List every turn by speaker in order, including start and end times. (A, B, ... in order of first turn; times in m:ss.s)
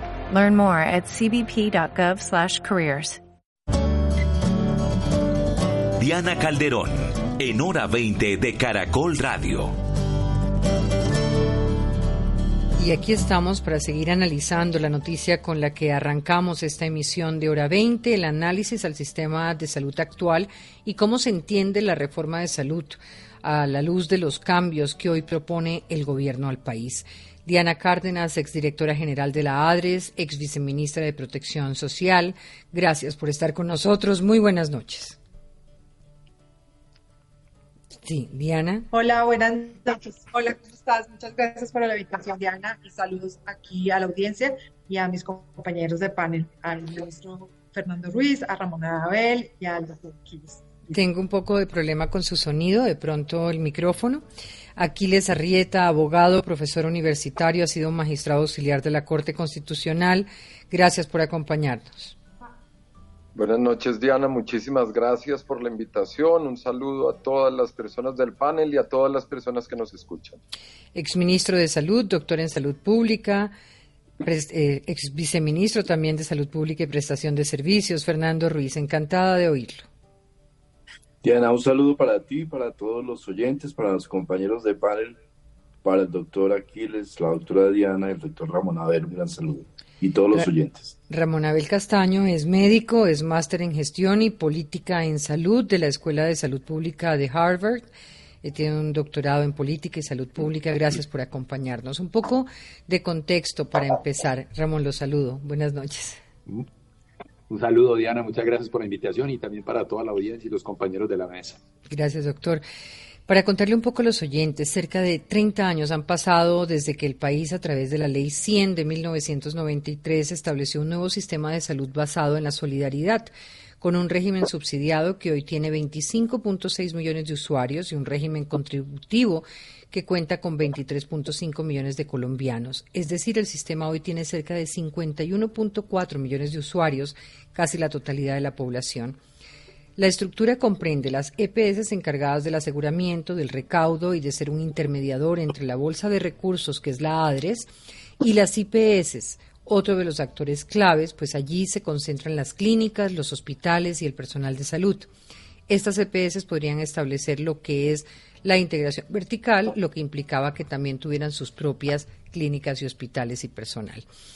0:00.3-0:03.2 A
0:06.0-0:09.8 B
0:12.8-0:35.2 C
0:38.0-0:38.9 C
0:38.9-0:50.7 D
0:50.9-0:54.2 C
0:54.8-1:02.2 C
1:03.4-1:10.4 E
1:10.9-1:13.5 C
1:14.2-1:19.9 C
1:21.2-1:25.2 F
1:25.8-1:31.0 F
1:31.1-1:37.9 C
1:38.4-1:46.2 C
1:47.5-1:51.6 G
1:51.9-1:52.6 C
1:53.3-2:19.2 C
2:20.0-2:27.7 C
2:28.2-2:35.1 C
2:35.7-2:44.0 C